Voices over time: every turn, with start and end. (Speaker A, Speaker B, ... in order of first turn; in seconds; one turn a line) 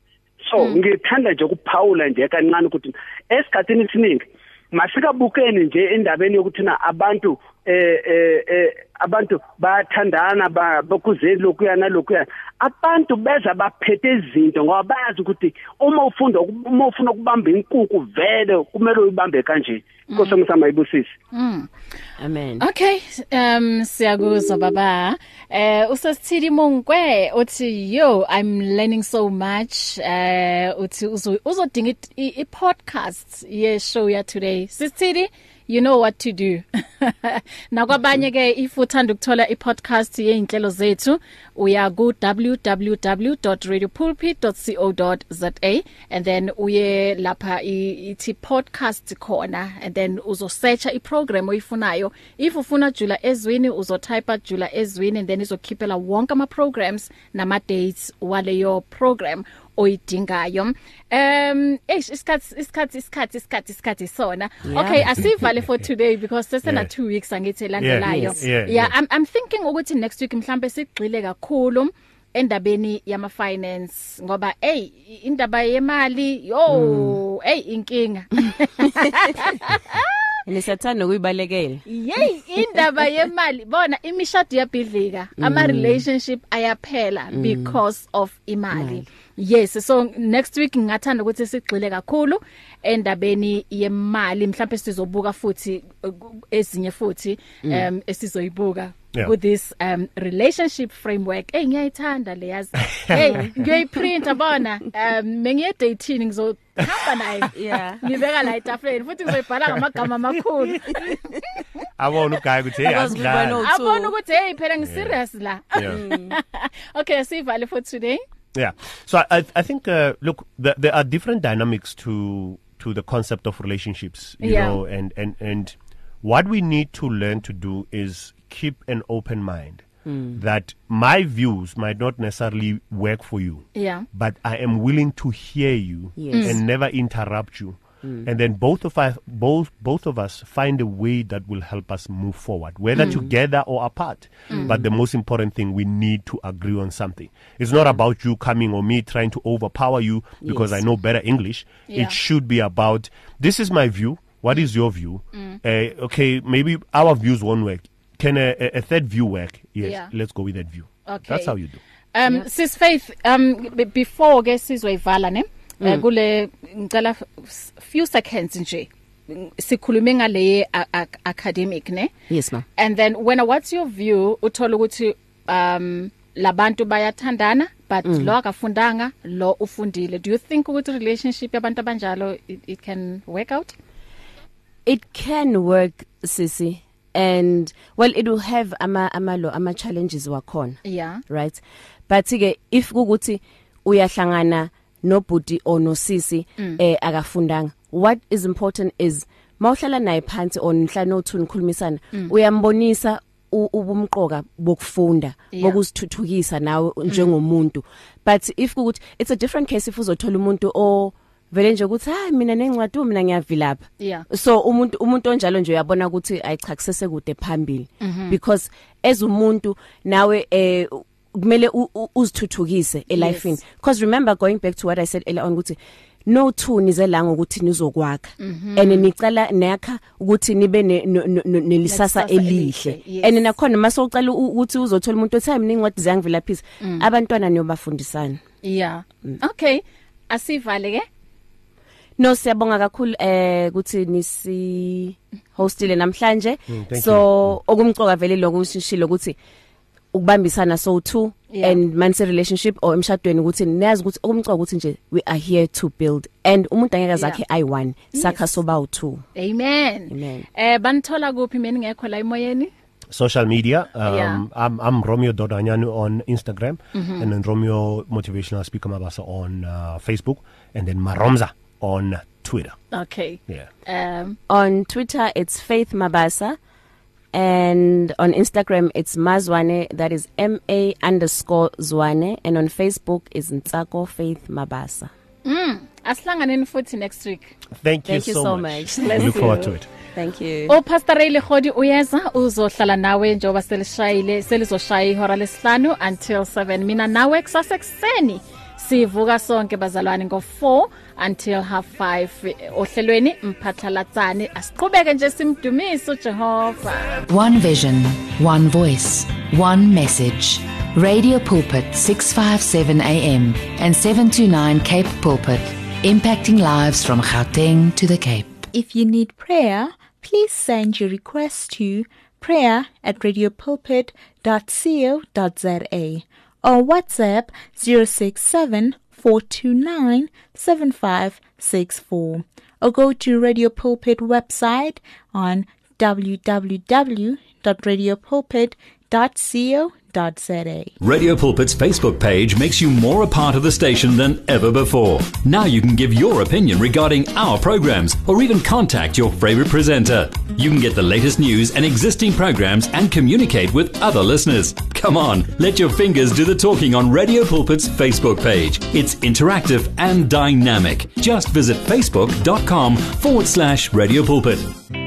Speaker A: 0.4-21.1
Speaker B: 20.1-20.4
Speaker B: 21.3-21.7
Speaker C: 22.2-22.6
Speaker B: 22.6-80.4
Speaker C: 64.6-65.3
Speaker D: 66.6-66.9
Speaker D: 67.8-68.9
Speaker C: 68.0-68.5
Speaker C: 76.7-77.2
Speaker C: 80.5-81.8
Speaker B: 81.9-111.6
Speaker C: 85.4-86.0
Speaker C: 87.3-87.8
Speaker C: 88.7-89.0
Speaker C: 103.1-103.6
Speaker C: 107.5-108.1
Speaker C: 110.9-111.4
Speaker D: 112.0-113.7
Speaker C: 112.8-114.2
Speaker B: 113.6-118.2
Speaker D: 114.8-115.2
Speaker C: 115.8-116.4
Speaker D: 118.5-161.8
Speaker B: 124.4-124.8
Speaker C: 130.1-130.4
Speaker B: 133.8-134.0
Speaker C: 136.2-136.6
Speaker B: 136.3-136.6
Speaker C: 143.0-143.3
Speaker C: 150.4-150.8
Speaker B: 151.9-152.2
Speaker B: 159.8-160.1
Speaker B: 161.1-161.5
Speaker B: 162.1-172.1
Speaker C: 172.3-172.6
Speaker B: 172.8-183.7
Speaker C: 178.0-178.3
Speaker C: 184.8-238.4
Speaker B: 190.8-191.2
Speaker B: 205.5-205.8
Speaker B: 214.0-214.2
Speaker B: 218.0-218.4
Speaker B: 223.1-223.6
Speaker B: 228.4-229.1
Speaker B: 231.8-233.5
Speaker B: 236.8-237.1
Speaker B: 238.6-241.1
Speaker C: 242.2-249.3
Speaker D: 246.7-247.6
Speaker C: 250.1-259.2
Speaker B: 251.5-251.8
Speaker B: 258.1-258.6
Speaker B: 259.3-262.7
Speaker C: 260.1-260.4
Speaker D: 263.1-272.8
Speaker B: 264.0-264.4
Speaker B: 266.9-267.3
Speaker B: 272.9-274.4
Speaker C: 274.5-276.6
Speaker C: 277.3-285.1
Speaker B: 285.4-287.6
Speaker D: 287.8-289.9
Speaker C: 288.0-290.8
Speaker B: 289.0-289.7
Speaker B: 290.7-307.2
Speaker E: 307.3-318.7
Speaker F: 318.7-340.9
Speaker G: 341.0-364.8